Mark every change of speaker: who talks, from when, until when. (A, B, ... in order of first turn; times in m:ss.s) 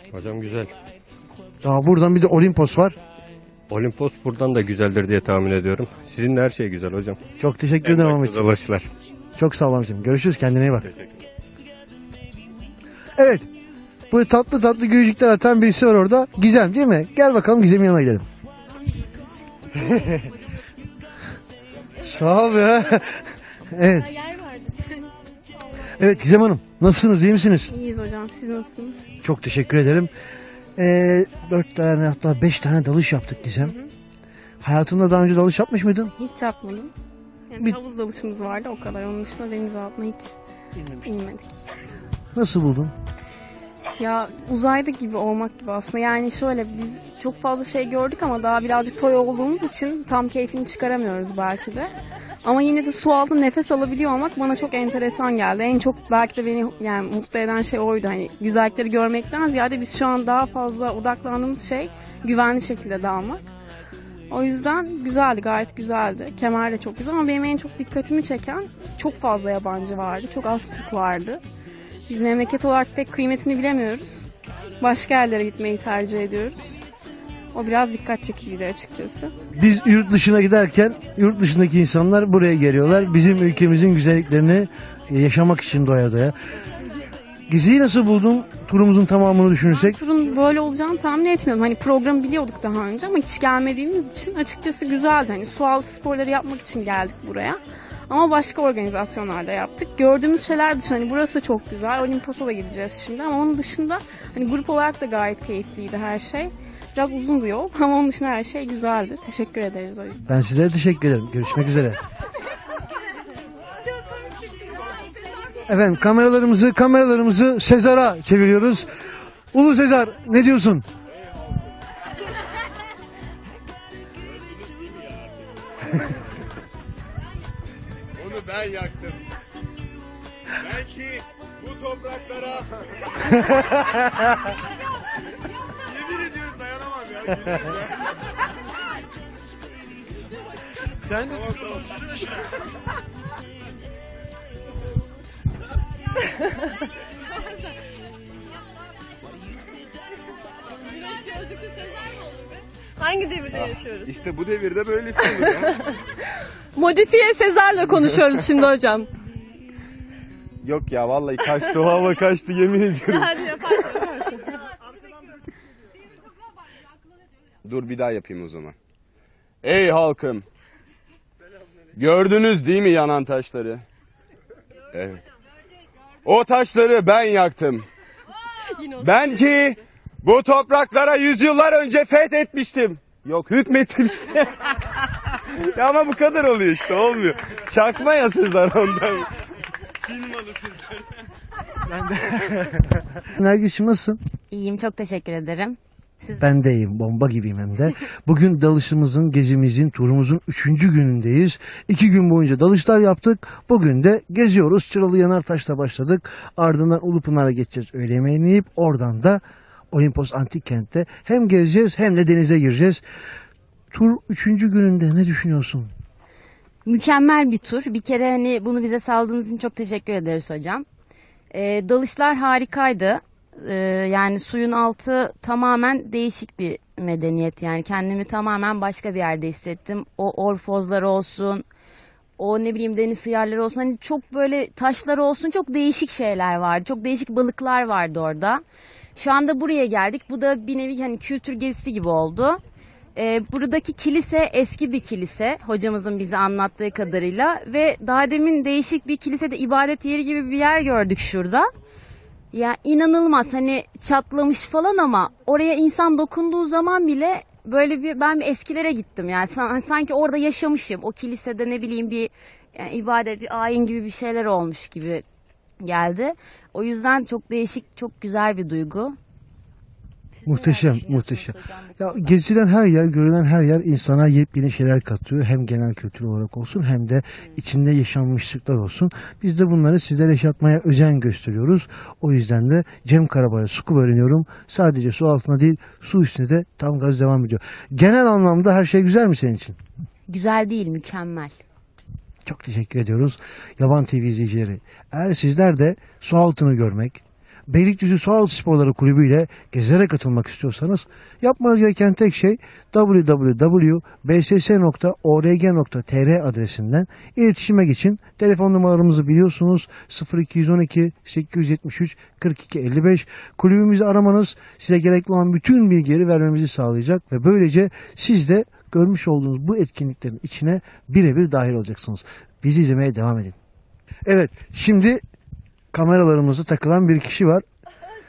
0:00.1-0:00.7 A
0:01.6-0:03.0 B
0:03.7-0:07.2 A
0:07.4-0:08.5 B
0:07.8-0:08.9 A
0:09.4-0:10.9 B
0:10.9-0:11.3 A
0:13.2-0:13.5 B
0:14.1-0:18.3 B
0:19.9-0:20.2 B
0:22.0-0:24.1 B
0:24.1-0:25.0 C
0:25.9-0:27.7 B
0:27.7-0:29.0 C
0:29.2-0:30.1 B
0:30.8-0:33.8 B
0:33.6-0:33.9 C
0:34.6-0:36.1 B
0:36.2-0:36.9 C
0:37.5-0:40.4 C
0:41.0-0:41.6 C
0:42.4-0:42.9 B
0:44.0-0:51.9 C
0:52.4-1:03.4 C
1:04.3-1:11.4 C
1:12.1-1:14.3 C
1:14.8-1:16.8 C
1:17.5-1:19.3 C
1:19.5-1:26.3 B
1:27.5-1:30.0 B
1:29.7-1:50.2 C
1:50.2-1:52.0 B
1:55.7-1:58.9 B
1:59.5-2:00.8 B
2:04.4-2:05.3 D
2:08.2-2:09.2 D
2:10.6-2:13.3 D
2:15.8-2:18.0 D
2:21.2-2:22.0 D
2:31.6-2:31.8 E
2:33.0-2:33.9 E
2:33.0-2:33.3 C
2:33.5-2:35.9 D
2:36.8-2:39.1 C
2:40.6-2:44.0 D
2:43.4-2:44.6 E
2:47.6-2:48.7 D
2:49.6-2:50.4 D
2:52.0-2:53.8 D
2:54.9-2:55.2 D
2:56.2-2:57.9 D
2:58.8-3:09.3 D
3:09.9-3:11.0 D
3:12.0-3:12.5 D
3:13.1-3:14.2 B
3:14.5-3:16.4 F
3:16.4-3:29.4 B
3:29.9-3:33.0 B
3:33.9-3:35.9 B
3:36.8-3:40.9 F
3:41.5-3:51.6 F
3:52.4-3:58.6 F
3:59.2-4:02.6 F
4:03.2-4:11.7 F
4:12.5-4:25.2 F
4:25.8-4:29.2 F
4:30.4-4:32.4 F
4:30.4-4:49.8 B
4:50.3-4:51.6 F
4:52.4-5:23.6 B
5:24.3-5:25.2 B
5:25.9-5:27.6 B